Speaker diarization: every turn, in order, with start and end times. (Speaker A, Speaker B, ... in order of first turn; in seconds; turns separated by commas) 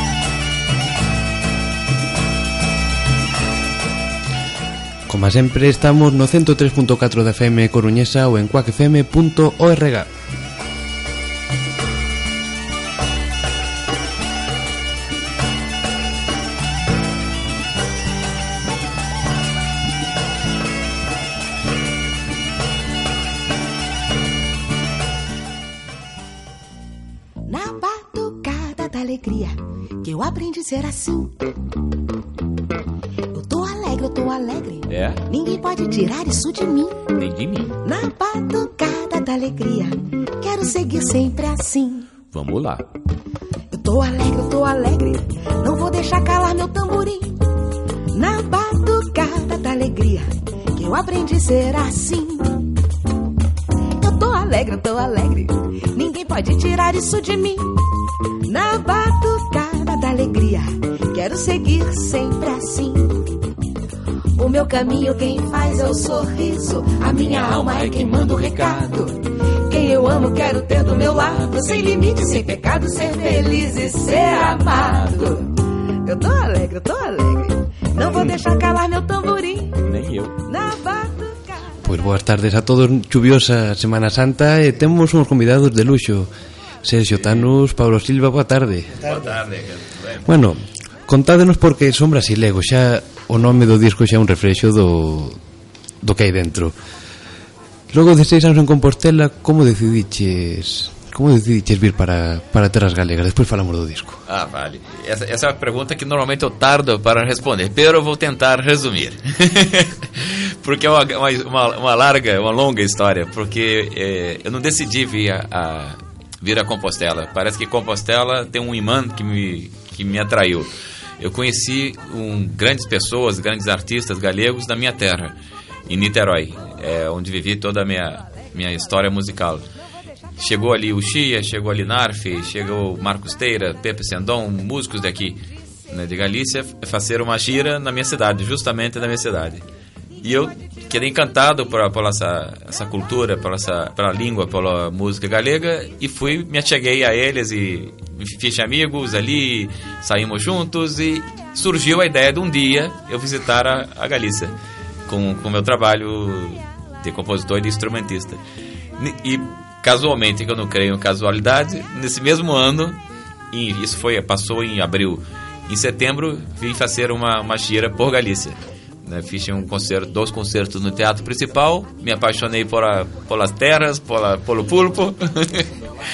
Speaker A: 5.1-10.1, Speaker B: 27.4-31.4, Speaker B: 33.3-37.0, Speaker C: 34.9-35.2, Speaker C: 37.1-37.8, Speaker B: 37.8-42.1, Speaker C: 42.3-42.9, Speaker B: 43.7-47.4, Speaker B: 48.1-52.7, Speaker B: 54.0-57.7, Speaker B: 58.5-63.3, Speaker B: 64.4-81.7, Speaker C: 67.4-68.8, Speaker C: 79.9-80.4, Speaker A: 81.8-86.3, Speaker A: 86.8-88.9, Speaker C: 87.1-87.5, Speaker C: 89.0-90.3, Speaker A: 90.2-95.4, Speaker A: 96.0-96.8, Speaker A: 97.9-104.2, Speaker C: 104.3-125.3, Speaker C: 125.9-129.6, Speaker C: 130.4-135.4, Speaker C: 135.9-139.6, Speaker C: 140.2-154.5, Speaker C: 155.1-158.4, Speaker C: 159.0-163.0, Speaker C: 163.5-175.7